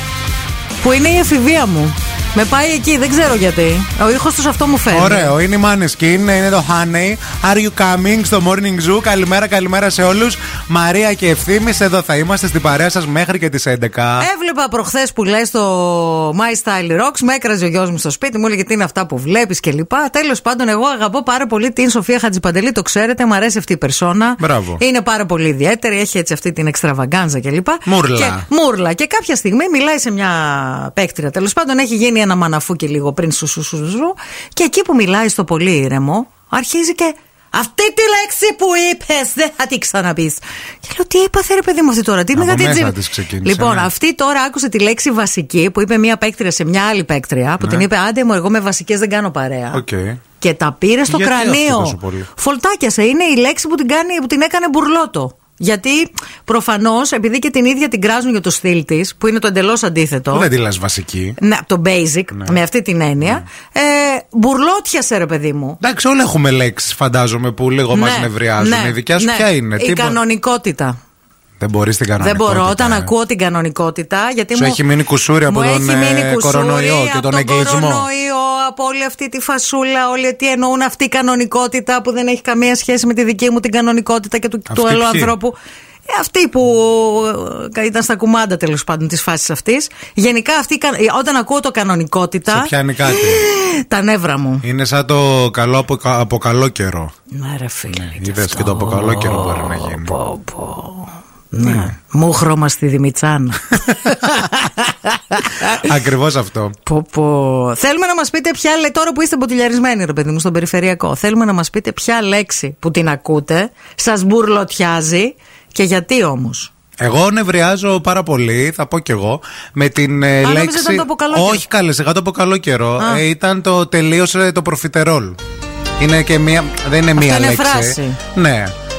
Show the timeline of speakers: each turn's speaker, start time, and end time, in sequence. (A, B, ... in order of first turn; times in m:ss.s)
0:00.8-0:05.3 A
0:04.9-0:14.3 B
0:14.2-0:49.8 A
0:24.4-0:24.8 B
0:27.8-0:28.5 B
0:42.3-0:43.9 B
0:47.6-0:47.9 B
0:49.7-0:50.2 B
0:50.4-1:00.5 A
0:51.1-0:52.3 B
1:00.3-1:01.4 B
1:01.4-1:05.8 A
1:05.8-1:10.2 B
1:07.9-1:11.0 A
1:11.6-1:13.1 B
1:12.2-1:14.8 A
1:14.5-1:18.1 B
1:15.4-1:25.5 A
1:24.7-1:25.3 B
1:26.1-1:34.6 A
1:32.5-1:33.4 B
1:34.6-1:37.1 B
1:37.3-1:45.9 A
1:37.9-1:40.1 B
1:43.8-1:44.1 B
1:45.6-1:46.8 B
1:46.8-1:56.7 A
1:57.0-2:05.4 B
2:00.4-2:01.6 A
2:06.0-2:08.7 B
2:07.2-2:08.2 A